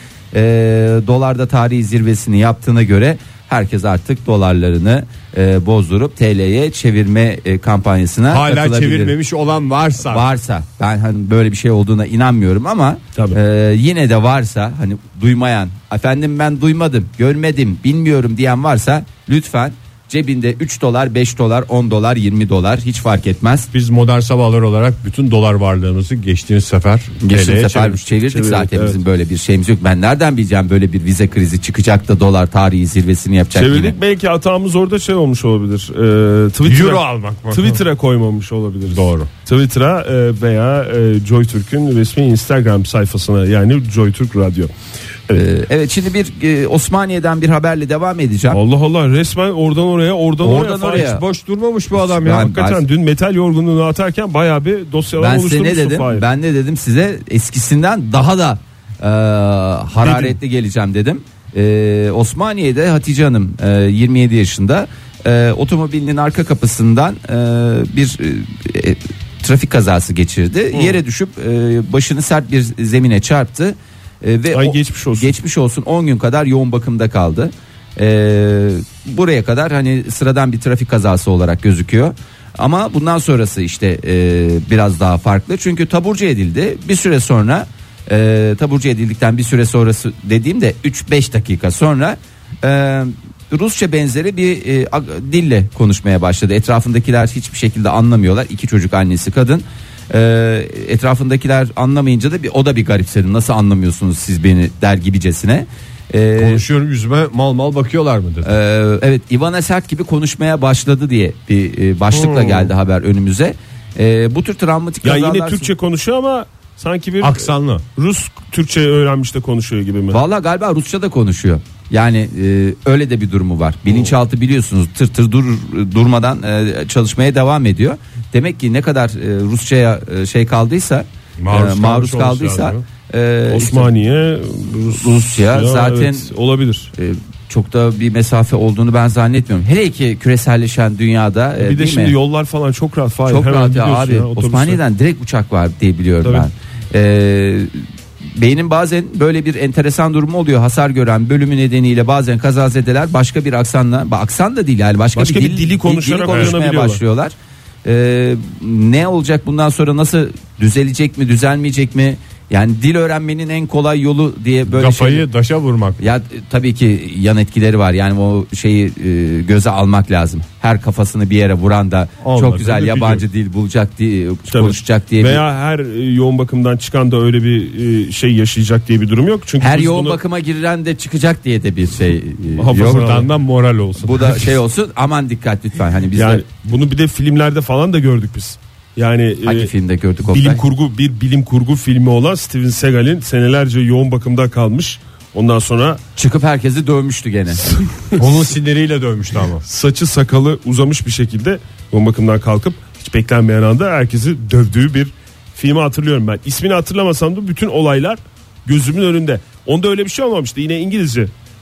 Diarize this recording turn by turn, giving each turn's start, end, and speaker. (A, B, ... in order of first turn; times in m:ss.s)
0:00.3-0:09.1 A
0:08.3-0:10.3 B
0:10.0-0:23.7 A
0:23.7-0:28.0 B
0:27.2-0:34.0 A
0:28.3-0:29.0 C
0:33.5-0:44.7 C
0:36.6-0:37.8 B
0:38.9-0:39.3 B
0:45.3-0:48.6 A
0:48.5-0:51.1 C
0:50.4-0:51.2 A
0:50.5-0:52.5 B
0:51.9-0:52.8 A
0:52.3-0:56.2 C
0:55.2-1:46.6 A
1:00.0-1:00.3 C
1:10.7-1:11.0 C
1:14.5-1:15.3 C
1:46.4-1:48.6 B
1:48.4-1:55.7 A
1:52.1-1:52.7 C
1:55.0-2:00.2 C
1:57.2-1:57.8 B
2:00.1-2:13.9 A
2:03.9-2:04.1 C
2:11.4-2:12.8 B
2:13.5-2:16.9 C
2:14.9-2:16.3 A
2:17.0-2:22.1 A
2:21.6-2:24.8 C
2:23.3-2:27.8 A
2:28.3-2:37.3 A
2:35.2-2:37.0 C
2:37.8-2:45.2 A
2:44.7-2:46.1 B
2:46.0-2:55.4 A
2:52.2-2:53.2 B
2:54.5-3:00.2 C
2:59.6-3:03.2 A
3:02.6-3:03.2 C
3:02.7-3:04.6 B
3:04.0-3:06.4 A
3:06.2-3:09.7 C
3:09.4-3:10.6 A
3:10.2-3:16.0 C
3:16.2-3:17.8 A
3:17.7-3:18.2 C
3:18.2-3:19.6 B
3:19.6-3:31.3 C